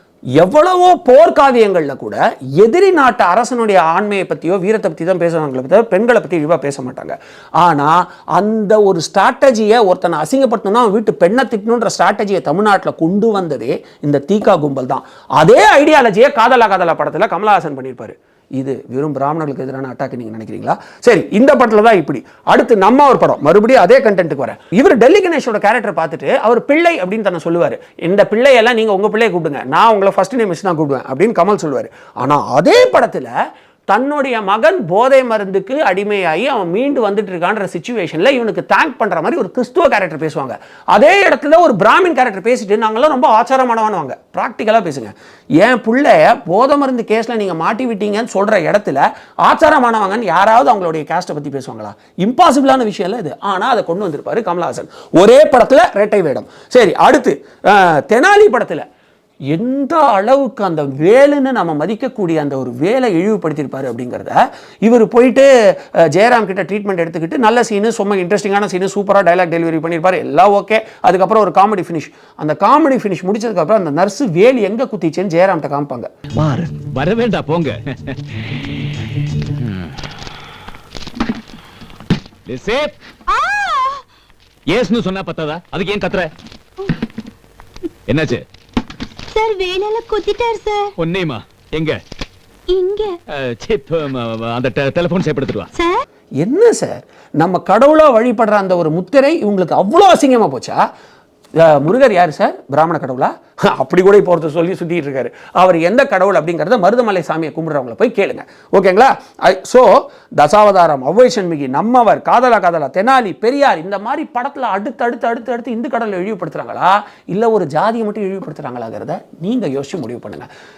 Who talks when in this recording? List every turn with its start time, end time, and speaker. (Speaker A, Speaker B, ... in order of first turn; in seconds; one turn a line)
Speaker A: 0.4-33.3
Speaker A: 33.9-58.8
Speaker A: 59.5-65.5
Speaker A: 66.1-76.1
Speaker B: 76.4-77.8
Speaker B: 82.5-82.9
Speaker B: 84.7-86.3
Speaker B: 88.1-88.4
Speaker C: 89.3-90.9
Speaker B: 91.0-92.0
Speaker C: 92.7-93.1
Speaker B: 93.3-95.7
Speaker C: 95.7-96.0
Speaker A: 96.4-100.8
Speaker A: 101.6-120.5